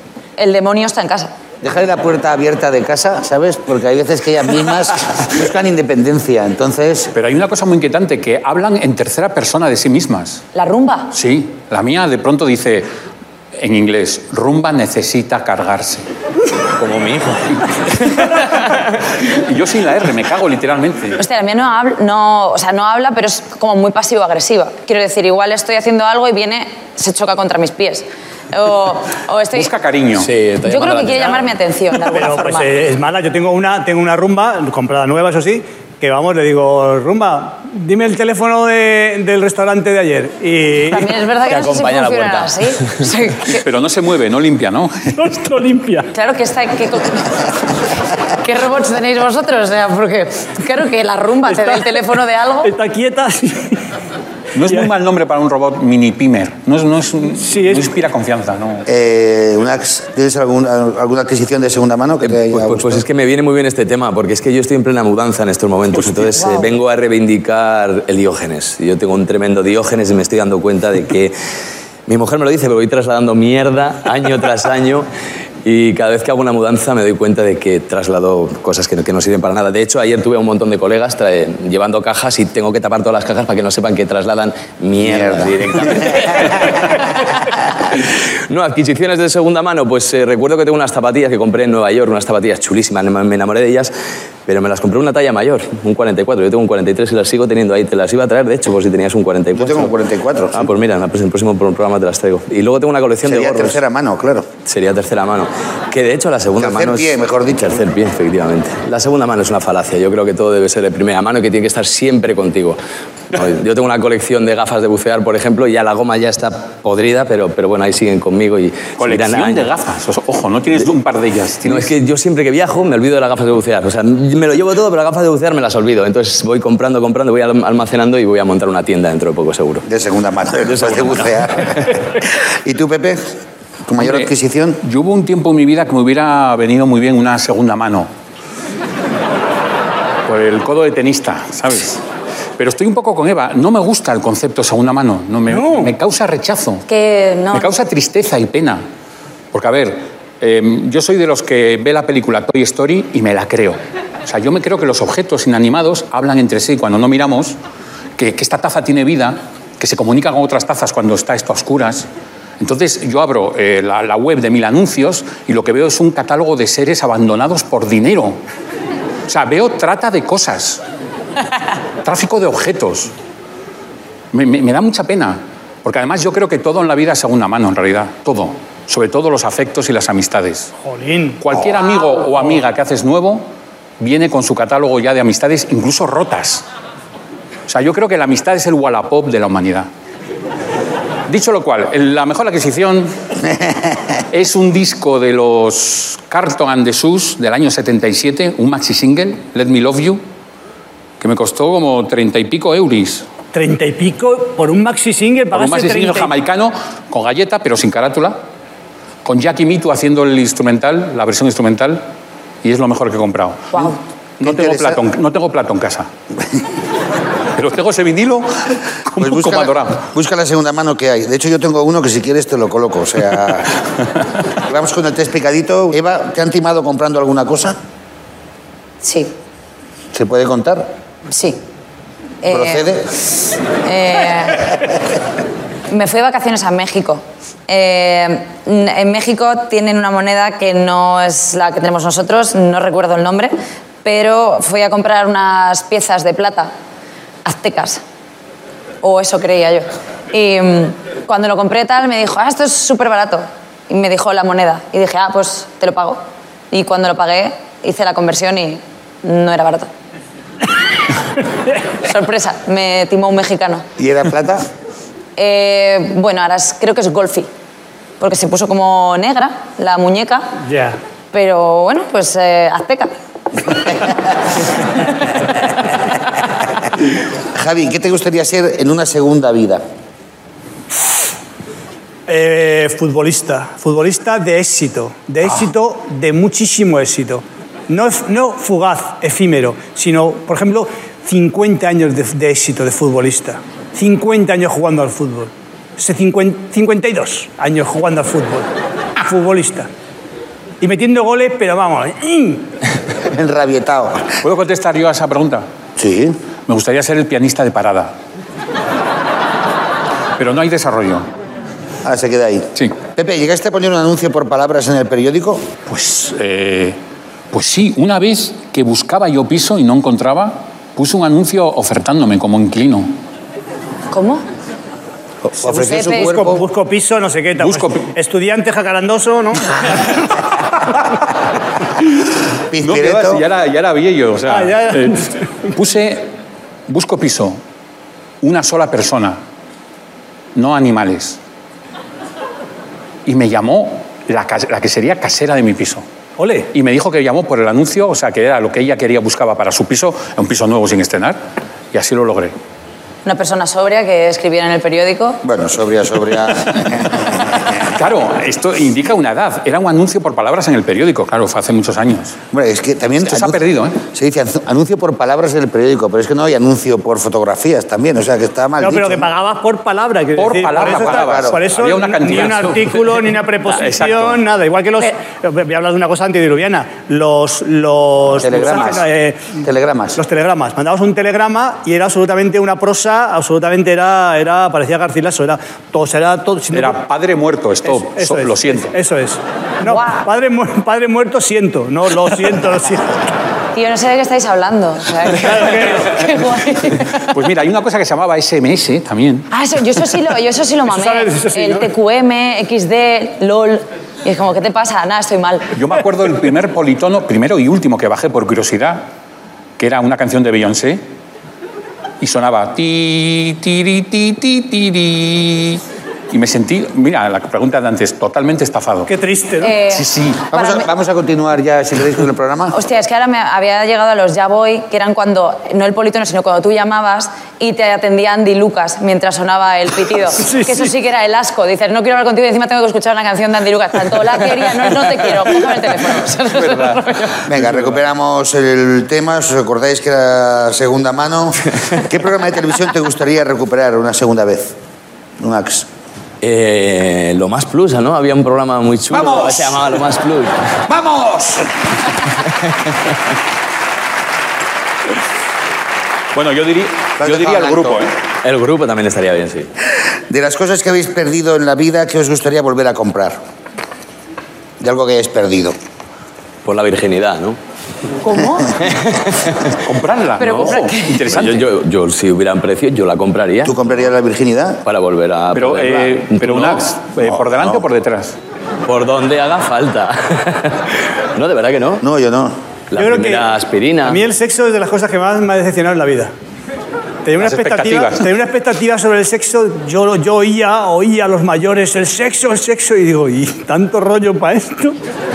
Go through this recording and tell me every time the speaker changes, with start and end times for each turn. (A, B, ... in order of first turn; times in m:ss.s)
0:00.4-0:01.3 A
0:01.6-0:07.1 B
0:07.1-0:10.4 C
0:10.6-0:11.1 A
0:11.1-0:12.9 C
0:13.6-0:16.0 C
0:16.8-0:17.6 D
0:18.1-0:18.7 C
0:19.2-0:21.2 C
0:21.2-0:29.7 A
0:29.5-0:30.3 C
0:30.2-0:31.5 D
0:30.6-0:32.7 A
0:32.1-0:41.1 E
0:40.9-0:43.6 A
0:41.5-0:42.6 D
0:43.5-0:45.2 C
0:45.2-0:46.1 E
0:46.1-0:47.5 A
0:48.3-0:52.7 A
0:51.5-0:52.0 E
0:52.6-0:53.8 E
0:54.6-0:58.9 C
0:57.4-0:58.0 E
0:58.9-1:03.0 B
1:02.2-1:11.3 D
1:12.1-1:15.1 D
1:15.6-1:27.0 D
1:25.0-1:26.2 B
1:27.9-1:33.9 D
1:34.5-1:39.9 D
1:39.6-1:40.7 B
1:40.6-1:43.8 D
1:43.2-1:44.5 B
1:44.7-1:52.8 D
1:46.6-1:47.8 B
1:53.3-1:59.7 D
1:59.0-2:01.9 C
2:01.6-2:09.8 D
2:09.9-2:13.3 B
2:10.7-2:11.4 D
2:13.9-2:14.8 B
2:14.0-2:14.3 C
2:14.8-2:18.1 C
2:20.3-2:22.0 C
2:22.6-2:26.8 C
2:25.5-2:25.9 E
2:26.9-2:27.7 A
2:27.5-2:28.8 C
2:29.5-2:37.6 C
2:38.2-2:42.1 C
2:42.6-2:48.4 C
2:49.3-2:50.8 C
2:52.0-2:53.1 C
2:54.3-3:00.7 C
3:00.8-3:01.4 E
3:01.4-3:03.5 C
3:04.0-3:06.6 C
3:07.7-3:09.9 C
3:11.3-3:13.1 C
3:13.6-3:14.0 B
3:14.3-3:20.2 C
3:21.2-3:23.3 C
3:23.5-3:26.3 E
3:25.5-3:28.4 C
3:29.2-3:32.1 C
3:32.6-3:36.1 C
3:34.4-3:35.0 B
3:37.6-3:40.1 C
3:39.2-3:43.8 B
3:44.6-3:47.8 B
3:49.0-3:49.3 A
3:50.1-3:50.9 B
3:51.3-3:51.6 A
3:52.4-3:52.9 A
3:52.5-3:53.1 B
3:53.8-3:54.7 A
3:55.9-4:03.5 A
4:04.0-4:06.7 A
4:07.4-4:08.0 A
4:09.0-4:16.2 A
4:16.7-4:19.9 A
4:22.0-4:23.9 A
4:24.0-4:24.7 B
4:25.4-4:27.5 A
4:28.2-4:30.5 A
4:30.6-4:31.0 E
4:31.3-4:33.1 A
4:37.5-4:39.8 B
4:42.3-4:59.9 E
5:00.8-5:02.7 E
5:03.2-5:04.4 B
5:04.4-5:05.6 C
5:06.0-5:06.4 B
5:06.7-5:08.2 C
5:10.4-5:11.3 C
5:12.0-5:15.7 B
5:15.9-5:17.0 C
5:17.5-5:23.1 C
5:24.1-5:24.4 A
5:25.4-5:26.7 B
5:25.7-5:26.4 A
5:25.8-5:30.3 E
5:27.6-5:28.1 C
5:32.7-5:33.4 B
5:32.8-5:36.3 C
5:34.5-5:35.3 E
5:36.9-5:37.6 C
5:38.4-5:39.4 C
5:40.6-5:41.4 C
5:43.3-5:46.0 C
5:46.4-5:46.7 E
5:46.7-5:51.4 C
5:51.9-5:52.6 C
5:53.2-5:55.4 A
5:55.4-5:57.8 B
5:57.9-6:02.4 C
6:02.5-6:09.3 B
6:03.2-6:04.0 C
6:08.8-6:19.6 E
6:10.4-6:14.4 C
6:10.8-6:11.6 B
6:18.4-6:20.2 B
6:20.2-6:27.0 E
6:26.7-6:29.0 C
6:27.9-6:33.2 E
6:29.9-6:30.3 A
6:33.7-6:37.2 A
6:35.3-6:36.3 E
6:37.2-6:39.5 C
6:39.5-6:45.7 A
6:40.9-6:41.9 E
6:45.7-6:49.0 C
6:49.8-6:51.0 C
6:52.2-6:59.1 C
6:59.1-6:59.8 E
6:59.6-7:00.9 A
6:59.9-7:00.5 C
7:00.5-7:02.8 B
7:02.7-7:17.4 A
7:10.4-7:10.9 E
7:16.5-7:17.9 C
7:17.4-7:24.8 B
7:25.4-7:25.9 B
7:26.4-7:30.5 D
7:29.1-7:29.8 B
7:30.9-7:31.7 B
7:36.3-7:38.1 C
7:37.2-7:38.0 B
7:38.4-7:39.7 D
7:40.3-7:43.4 B
7:44.8-7:45.8 B
7:46.6-7:47.6 D
7:48.2-7:48.7 A
7:48.8-7:49.7 D
7:49.8-7:51.7 C
7:50.4-7:51.3 A
7:50.4-7:50.8 D
7:51.3-7:53.8 D
7:53.6-7:54.8 B
7:54.9-7:56.8 D
7:55.6-7:58.4 C
7:57.2-7:57.8 B
7:58.9-8:02.0 D
8:02.0-8:02.6 B
8:02.9-8:04.2 D
8:03.0-8:06.3 E
8:07.3-8:15.0 E
8:07.4-8:08.3 C